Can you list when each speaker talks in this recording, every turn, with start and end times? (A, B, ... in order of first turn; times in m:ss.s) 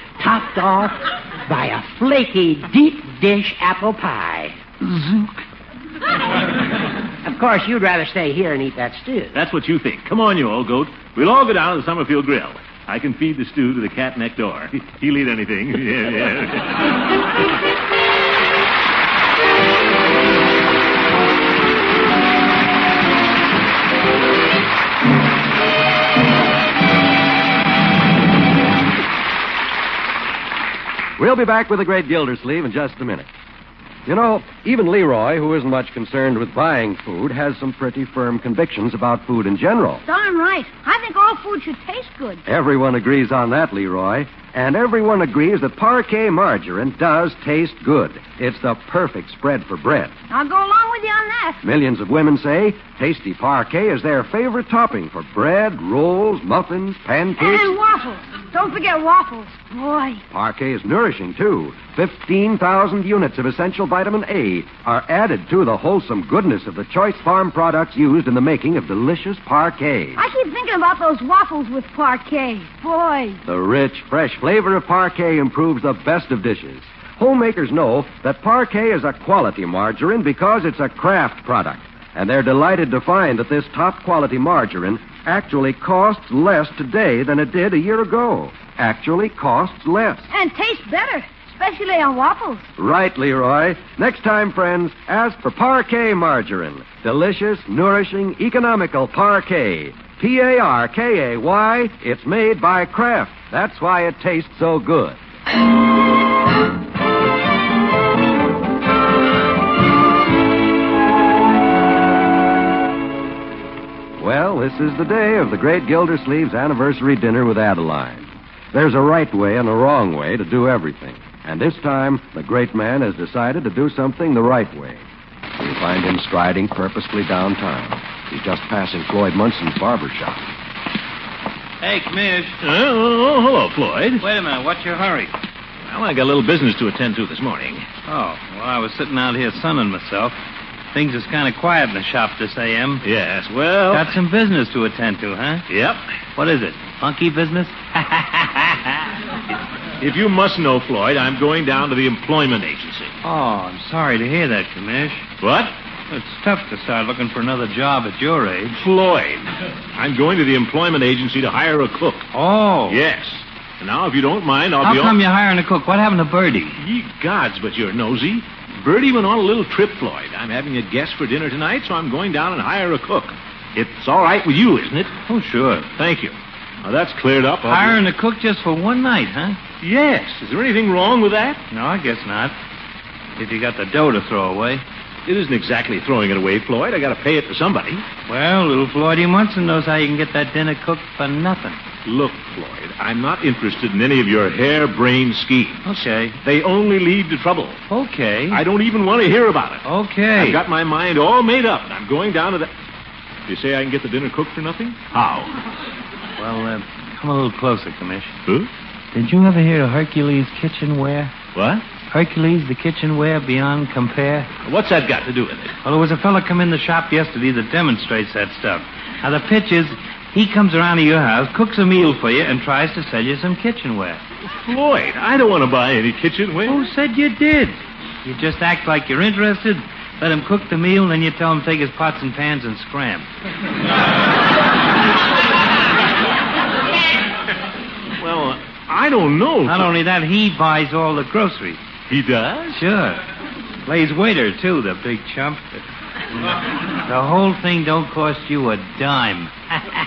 0:00.2-0:05.3 A
0:07.2-0:09.4 A
0:09.3-0:16.9 B
0:31.2-0:33.3 C
0:34.1-0:40.0 C
0:40.0-0:42.4 D
0:42.5-0:50.1 C
0:50.3-0:51.6 D
0:51.6-0:57.8 C
0:57.4-1:00.2 D
1:00.3-1:10.2 C
1:10.2-1:13.4 D
1:13.4-1:30.3 C
1:30.3-1:32.7 D
1:32.8-1:45.2 C
1:54.2-2:05.0 C
2:05.6-2:10.4 C
2:11.8-2:12.6 E
2:12.6-2:14.2 B
2:14.2-2:15.3 E
2:15.9-2:17.9 B
2:18.1-2:20.4 E
2:20.9-2:23.0 E
2:23.0-2:24.2 B
2:23.9-2:25.7 E
2:25.7-2:26.0 B
2:26.4-2:27.8 E
2:28.0-2:29.0 B
2:30.0-2:33.2 B
2:33.2-2:35.3 E
2:35.4-2:35.7 B
2:36.1-2:38.9 E
2:38.8-2:42.3 B
2:42.3-2:43.0 E
2:42.9-2:45.2 B
2:44.8-2:46.8 E
2:46.8-2:55.1 B
2:55.3-2:55.9 E
2:56.0-2:58.0 B
2:57.6-2:59.6 E
2:59.8-3:01.6 B
3:01.7-3:02.6 E
3:03.4-3:04.8 E
3:05.3-3:08.0 B
3:08.3-3:11.8 E
3:12.0-3:17.8 B
3:15.9-3:16.4 E
3:17.9-3:18.6 E
3:18.5-3:22.7 B
3:19.8-3:20.6 E
3:23.5-3:25.5 B
3:26.4-3:28.4 E
3:29.1-3:31.3 E
3:31.5-3:31.8 B
3:32.1-3:34.5 E
3:34.6-3:35.8 B
3:35.8-3:44.2 E
3:44.7-3:46.8 B
3:46.7-3:53.3 E
3:58.2-3:59.9 B
3:59.7-4:01.8 E
4:02.1-4:02.8 B
4:02.8-4:03.2 E
4:03.8-4:05.6 E
4:06.9-4:09.5 E